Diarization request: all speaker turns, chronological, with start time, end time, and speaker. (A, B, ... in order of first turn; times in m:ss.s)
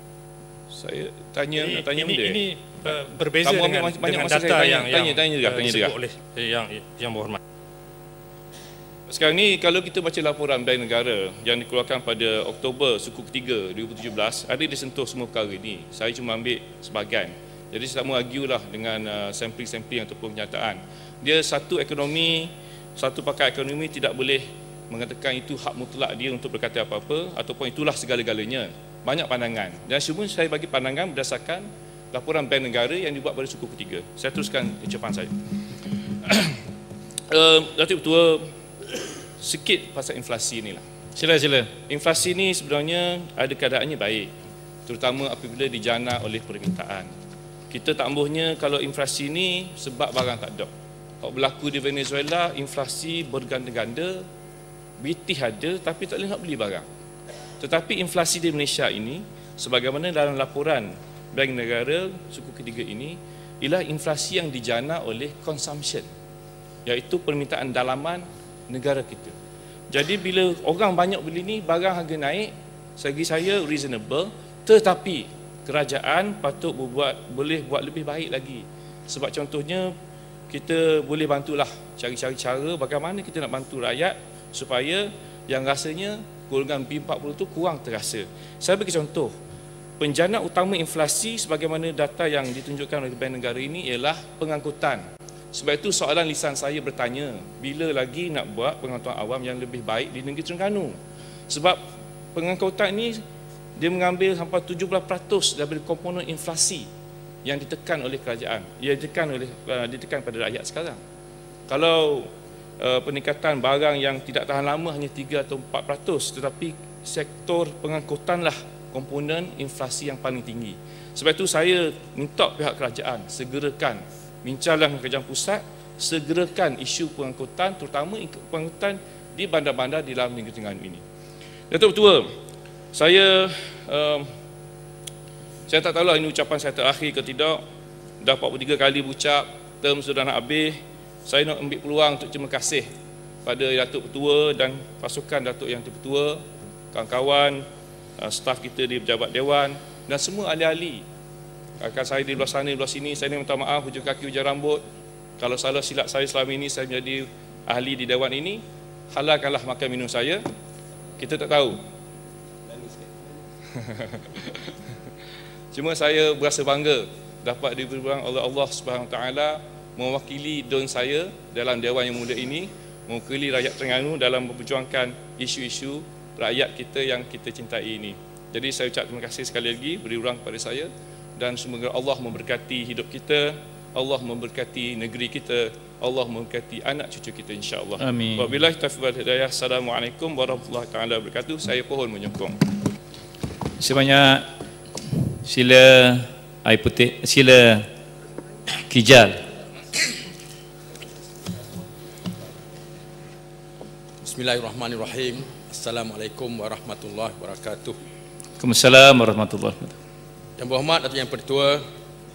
0:00.7-0:05.9 A
0:01.6-0:07.4 B
0:09.1-0:35.3 A
0:36.2-0:36.6 A
0:37.3-0:38.5 A
0:39.4-0:40.8 A
0:41.1-0:41.7 C
0:41.9-0:44.3 A
0:44.9-0:47.1 A
0:47.7-0:50.7 A
0:51.2-0:54.2 A
0:55.0-0:56.9 A
0:57.6-1:06.1 A
1:06.9-1:09.4 A
1:09.9-1:19.9 A
1:20.5-1:29.3 A
1:30.0-1:41.0 A
1:41.5-1:41.8 A
1:42.3-1:43.2 A
1:43.8-1:46.9 A
1:47.4-1:51.0 A
1:51.7-1:52.3 A
1:52.8-2:11.0 A
2:11.7-2:12.3 A
2:12.9-2:14.3 A
2:15.7-2:17.6 A
2:18.2-2:22.9 A
2:23.4-2:26.4 A
2:26.9-2:27.6 A
2:28.2-2:31.0 A
2:31.8-2:34.8 A
2:35.4-2:40.4 A
2:41.2-2:41.8 A
2:43.8-2:44.7 A
2:45.7-3:12.7 A
3:08.0-3:08.5 C
3:13.8-3:14.4 C
3:15.4-3:17.9 C
3:18.9-3:19.4 C
3:24.2-3:28.0 D
3:28.6-3:29.9 C
3:30.6-3:31.8 D